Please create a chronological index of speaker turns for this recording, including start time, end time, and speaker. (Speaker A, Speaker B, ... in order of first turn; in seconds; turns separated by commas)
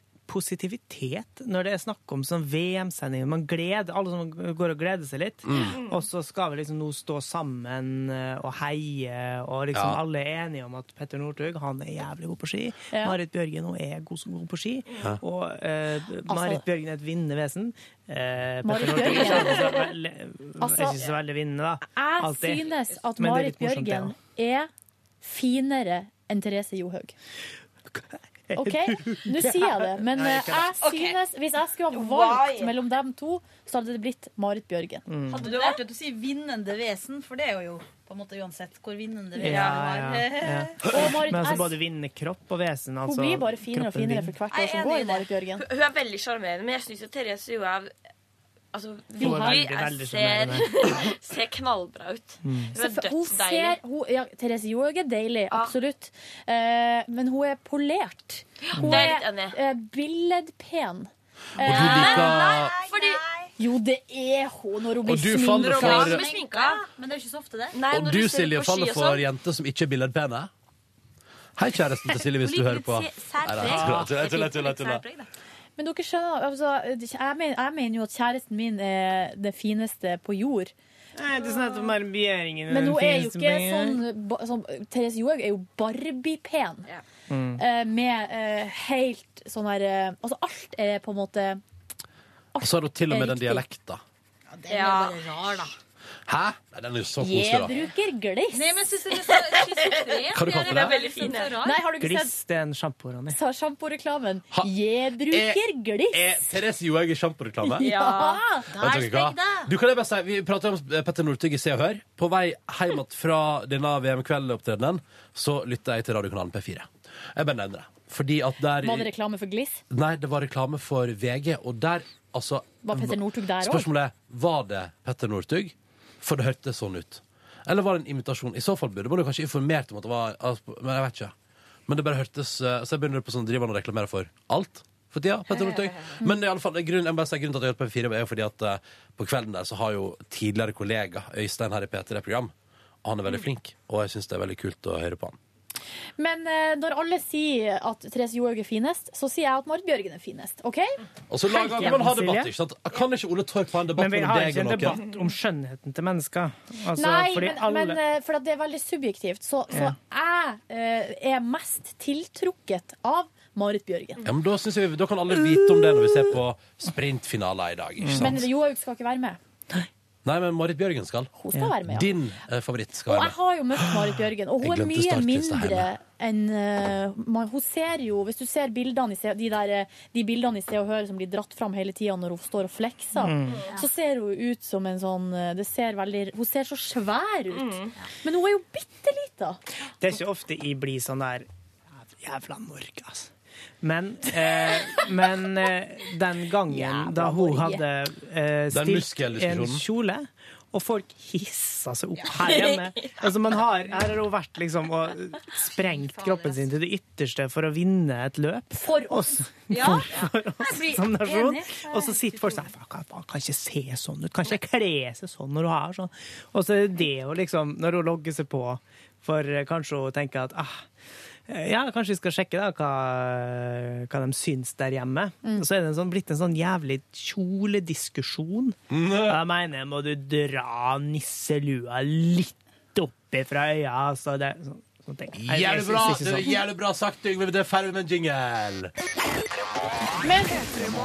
Speaker A: 0.3-24.1, Speaker B: 5.5-5.8, Speaker C: 5.7-6.0, Speaker B: 9.7-10.0, Speaker D: 16.3-16.6, Speaker D: 18.6-19.8, Speaker D: 20.6-21.0, Speaker D: 21.9-24.7, Speaker D: 25.2-27.1, Speaker A: 27.9-30.7, Speaker D: 28.6-35.1, Speaker C: 30.8-31.2, Speaker C: 31.9-32.7, Speaker A: 35.1-35.5, Speaker E: 35.3-40.8, Speaker C: 35.4-35.8, Speaker A: 39.4-44.4, Speaker C: 39.5-39.9, Speaker D: 40.9-41.8, Speaker D: 43.1-45.6, Speaker C: 44.5-47.9, Speaker C: 48.7-53.8, Speaker D: 49.2-49.7, Speaker A: 49.2-50.9, Speaker A: 52.4-52.8, Speaker D: 52.8-62.5, Speaker C: 58.6-59.6, Speaker A: 58.8-59.1, Speaker B: 61.6-62.8, Speaker E: 61.7-63.2, Speaker C: 61.7-63.2, Speaker D: 63.6-66.1, Speaker B: 65.0-66.2, Speaker C: 65.5-66.8, Speaker E: 65.8-67.8, Speaker C: 67.7-69.2, Speaker B: 67.9-70.5, Speaker B: 71.6-75.0, Speaker E: 72.2-75.3, Speaker D: 75.8-80.7, Speaker A: 81.2-84.0, Speaker D: 82.7-86.9, Speaker A: 87.3-87.6, Speaker D: 87.6-91.6, Speaker D: 92.5-93.6, Speaker B: 92.6-94.0, Speaker E: 94.5-95.7, Speaker C: 94.7-95.2, Speaker B: 96.3-97.7, Speaker D: 97.2-98.8, Speaker E: 98.5-101.8, Speaker C: 99.4-101.6, Speaker B: 100.3-101.0, Speaker D: 101.6-102.3, Speaker A: 102.0-103.4, Speaker D: 103.3-106.5, Speaker B: 105.3-107.9, Speaker D: 107.6-108.7, Speaker C: 107.8-108.4, Speaker E: 108.7-109.7, Speaker B: 108.8-119.1, Speaker D: 118.8-119.8, Speaker B: 119.9-131.3, Speaker D: 122.8-123.9, Speaker B: 131.9-142.5, Speaker B: 143.0-145.4, Speaker D: 146.2-151.0, Speaker B: 151.3-155.0, Speaker A: 151.5-152.5, Speaker A: 153.9-158.0, Speaker D: 157.0-164.2, Speaker B: 164.2-168.4, Speaker A: 168.0-168.4, Speaker D: 168.2-169.4, Speaker B: 170.2-171.3, Speaker D: 171.4-172.1, Speaker B: 171.9-175.9, Speaker D: 173.1-189.6, Speaker A: 183.2-183.6, Speaker C: 187.5-187.9, Speaker A: 190.0-191.5, Speaker A: 192.1-193.3, Speaker A: 193.8-220.9, Speaker D: 196.7-197.8, Speaker B: 198.7-199.8, Speaker C: 202.3-203.1, Speaker E: 205.8-206.6, Speaker D: 208.7-209.4, Speaker E: 209.7-212.7, Speaker A: 221.5-236.6, Speaker B: 228.9-229.4, Speaker B: 235.3-238.9, Speaker D: 240.2-240.7